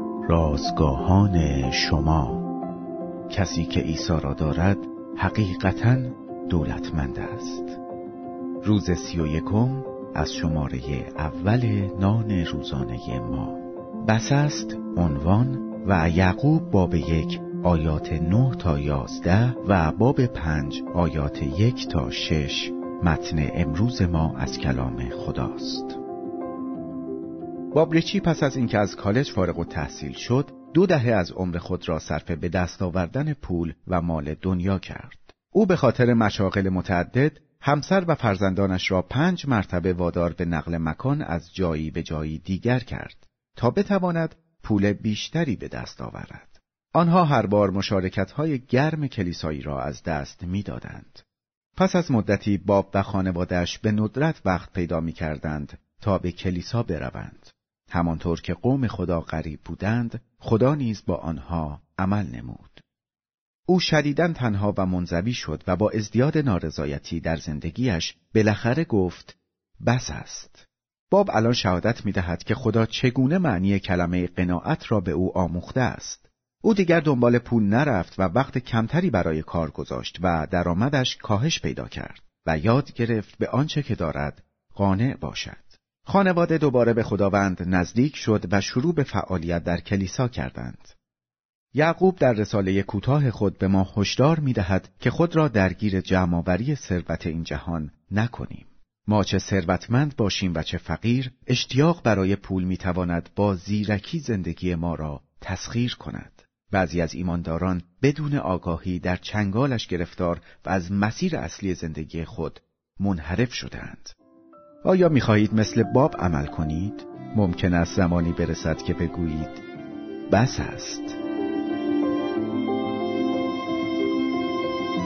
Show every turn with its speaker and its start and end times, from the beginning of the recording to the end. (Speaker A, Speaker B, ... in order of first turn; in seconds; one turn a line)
Speaker A: 0.2-2.4
Speaker A: 3.3-7.8
Speaker A: 8.6-26.0
Speaker A: 27.7-51.2
Speaker A: 51.8-62.8
Speaker A: 63.7-91.0
Speaker A: 91.7-114.2
Speaker A: 114.8-119.6
Speaker A: 120.3-121.2